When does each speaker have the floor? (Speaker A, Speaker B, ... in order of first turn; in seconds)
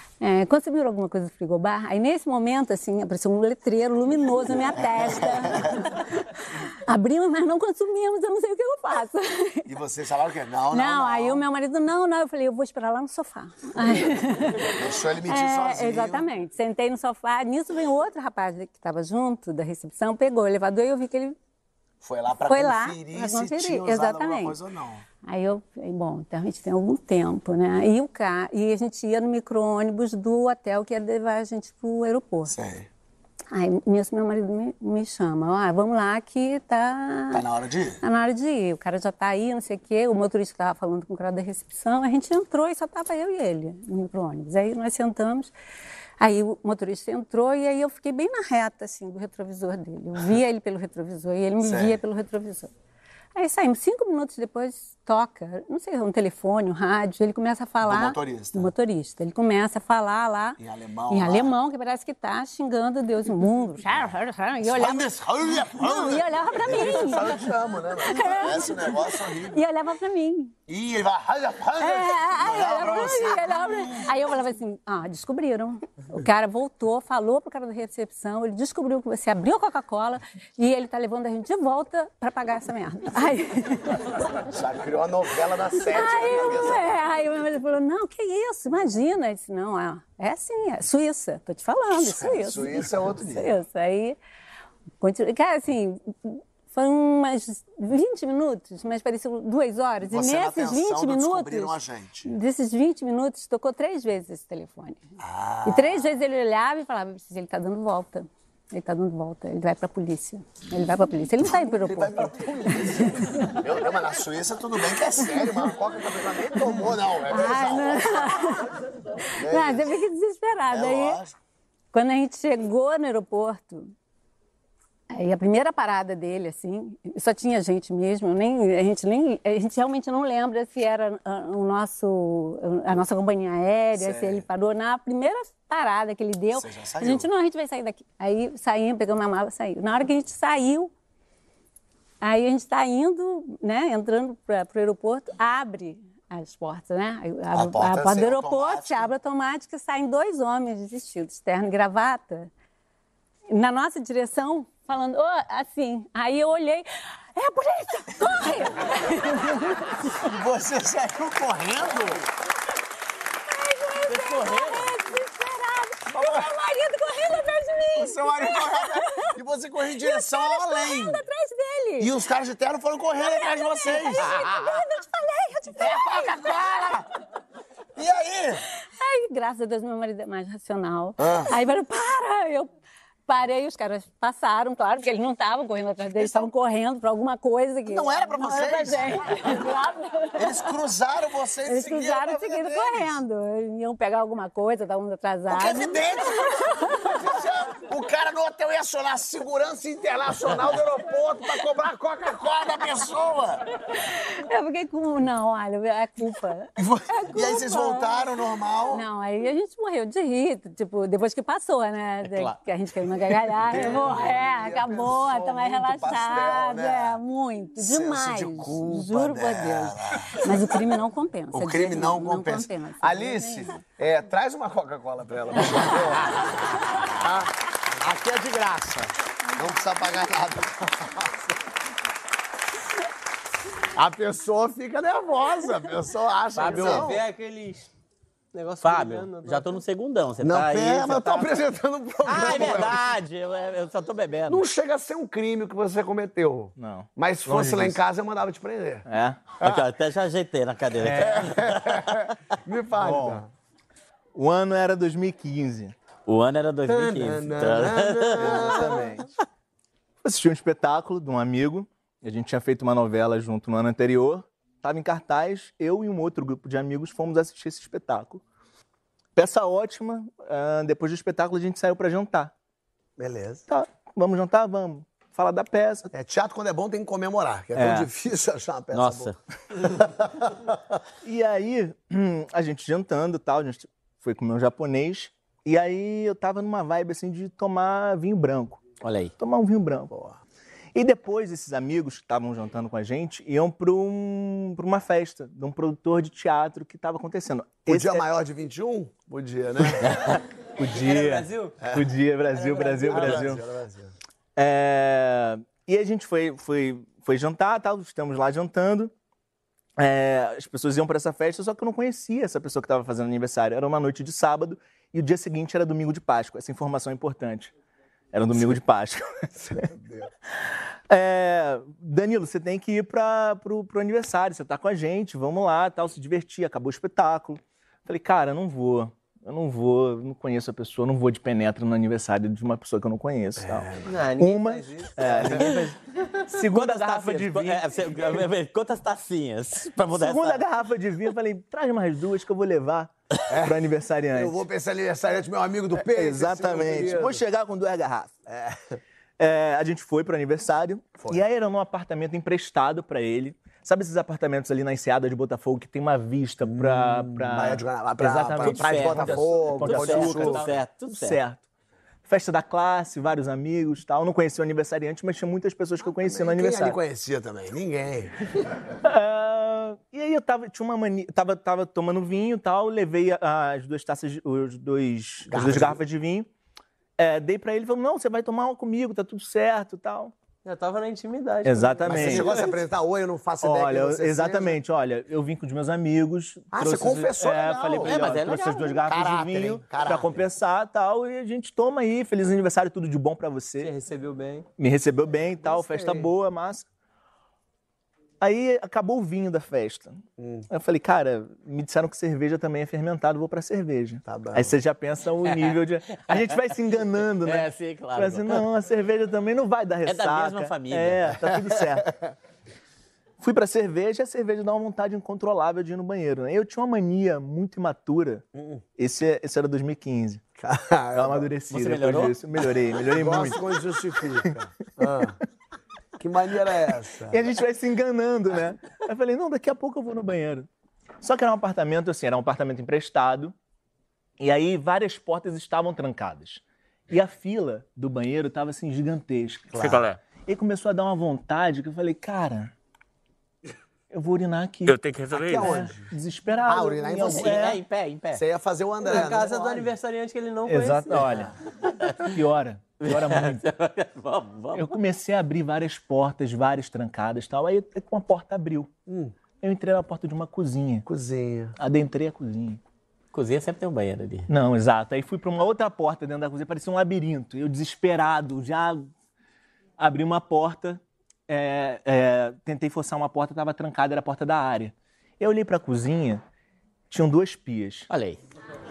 Speaker A: 0.2-9.7, 10.7-21.4, 22.4-24.6, 25.2-32.5, 33.5-37.5, 38.0-45.5, 46.2-52.7, 53.4-70.5, 71.8-84.2, 85.8-94.2, 95.0-105.0, 105.7-113.6, 117.2-118.8, 119.3-121.2, 121.9-123.9, 125.1-140.9, 142.2-152.5, 153.5-160.1, 163.4-169.4, 169.9-172.1, 173.2-176.9, 178.8-182.7, 183.3-190.7, 191.6-197.2, 203.9-223.8
Speaker B: 4.8-5.9, 9.7-11.4, 14.6-16.2, 22.0-25.0, 32.5-32.9, 37.3-38.0, 51.6-52.0, 57.8-58.7, 60.6-61.5, 64.6-69.6, 70.7-74.3, 84.4-87.1, 91.9-93.5, 100.0-102.3, 105.2-106.1, 111.4-118.6, 119.4-120.0, 120.7-121.3, 133.9-134.4, 136.5-137.3, 147.5-149.1, 160.1-162.3, 166.1-166.5, 167.9-171.2, 172.0-174.4, 175.8-177.1, 177.9-178.6, 181.2-181.5, 186.1-186.4, 187.9-189.5, 190.4-193.2, 195.5-203.6, 206.8-209.0, 213.6-217.2, 217.8-220.8, 221.5-231.5, 233.9-237.2, 240.4-243.0, 244.5-249.1, 251.1-253.5, 256.9-259.2, 273.2-273.6, 276.1-281.0, 290.1-290.4, 297.9-300.4, 303.0-304.1, 319.6-320.3, 333.6-334.1, 335.2-335.6, 343.5-347.4, 348.5-349.0, 356.7-360.7, 366.0-368.6, 375.5-376.0, 382.1-384.8, 386.7-388.2, 389.0-390.4, 395.6-396.3, 400.4-400.7, 404.2-404.8, 411.9-412.3, 418.5-418.8, 420.6-421.5, 423.0-425.4, 426.2-427.4, 439.7-440.0, 445.3-446.1, 446.7-447.7, 448.3-449.9, 459.1-459.3, 461.1-461.7
Speaker C: 164.1-164.9, 212.2-212.6, 236.5-237.1, 238.8-241.5, 242.2-244.6, 249.6-252.2, 256.3-258.9, 278.9-279.4, 289.0-289.3, 336.6-340.6, 358.6-361.4, 388.0-388.9, 405.5-406.6, 407.4-408.6, 410.1-411.3, 421.7-422.4, 439.8-440.2, 444.9-445.8, 447.2-448.4, 453.0-454.9, 463.3-464.5, 478.1-478.4
Speaker D: 236.6-237.9, 238.5-239.8, 300.9-301.8, 302.5-303.5, 334.0-336.0, 380.6-382.8, 393.8-394.7, 449.0-451.3
Speaker E: 246.8-248.0, 249.1-249.4, 251.0-251.4, 253.0-253.4, 254.3-255.9, 258.4-259.3, 260.2-268.4, 269.4-272.5, 273.7-276.1, 277.8-278.1, 281.2-288.8, 289.4-290.1, 290.9-298.3, 300.8-303.6, 304.6-309.1, 310.0-317.7, 318.3-319.9, 321.1-335.9, 336.5-337.9, 340.1-344.6, 345.9-348.3, 349.4-361.6, 362.2-367.0, 369.0-376.5, 377.2-380.3, 381.6-382.5, 383.6-393.9, 394.8-396.9, 398.4-412.1, 413.4-418.4, 419.0-420.4, 421.1-423.6, 427.3-430.7, 431.2-433.5, 434.4-442.7, 444.1-447.8, 450.7-451.5, 452.2-453.6, 454.7-458.9, 459.6-461.1, 461.8-462.8, 464.5-469.1, 470.0-476.4, 477.1-478.1